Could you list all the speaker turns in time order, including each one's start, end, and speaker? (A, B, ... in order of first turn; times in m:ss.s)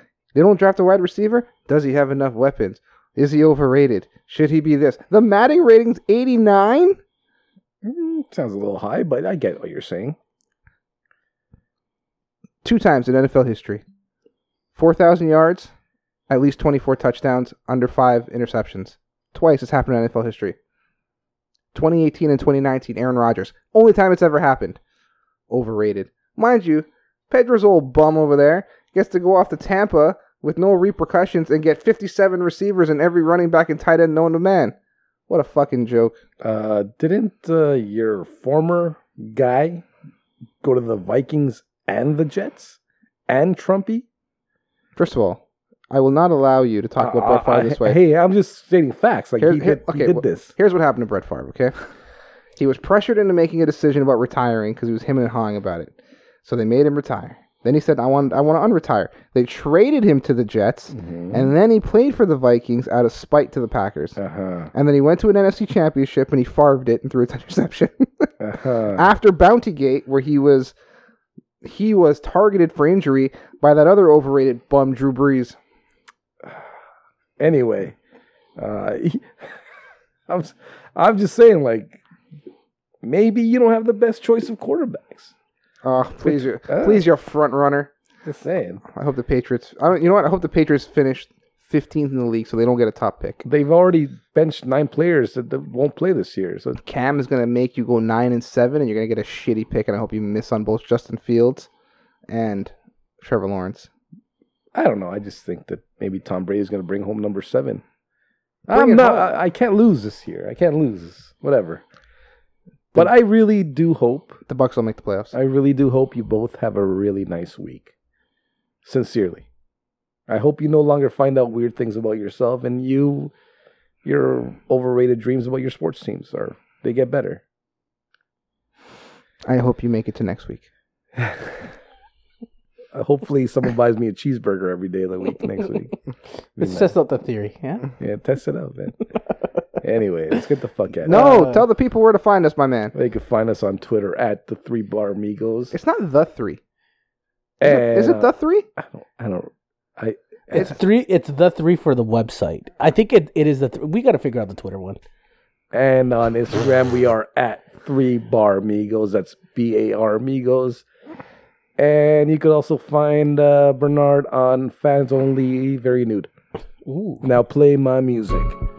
0:00.3-0:07.0 A
0:07.8-0:10.2 B
0:12.6-0:13.8 A
0:14.8-0:15.7 A
0:16.3-0:20.6 A
0:21.7-0:24.8 A
0:25.5-0:34.7 A
0:35.3-0:36.2 A
0:36.4-0:39.8 B
0:40.6-0:44.0 B
0:45.0-0:48.0 A
0:47.0-0:50.5 B
0:49.4-0:51.8 A
0:52.6-1:04.2 A
1:00.9-1:01.5 B
1:04.2-1:04.7 B
1:04.7-1:08.3 A
1:08.4-1:09.1 B
1:08.9-1:10.7 A
1:11.6-1:15.6 A
1:17.4-1:18.0 B
1:18.6-1:19.6 B
1:20.3-1:22.0 B
1:23.0-1:25.3 B
1:25.8-1:27.9 A
1:26.2-1:27.1 B
1:28.2-1:28.8 B
1:28.9-1:33.4 A
1:33.4-1:36.8 B
1:36.8-1:41.7 A
1:42.3-1:43.9 A
1:44.7-1:47.8 B
1:48.7-1:51.8 B
1:48.7-1:49.3 A
1:52.9-1:54.4 B
1:54.5-1:55.3 A
1:55.3-1:57.9 B
1:58.8-1:59.4 B
2:00.3-2:03.3 B
2:04.0-2:07.4 B
2:09.5-2:10.6 A
2:11.2-2:11.6 B
2:12.9-2:15.9 B
2:16.6-2:16.9 B
2:16.6-2:17.9 C
2:18.0-2:19.0 B
2:19.8-2:21.2 B
2:21.0-2:21.6 C
2:21.0-2:22.9 A
2:22.9-2:25.7 B
2:25.7-2:26.6 A
2:27.6-2:30.8 B
2:27.6-2:28.7 A
2:30.5-2:35.0 C
2:35.7-2:40.8 B
2:41.8-2:46.3 B
2:46.8-2:47.2 C
2:47.2-2:48.6 B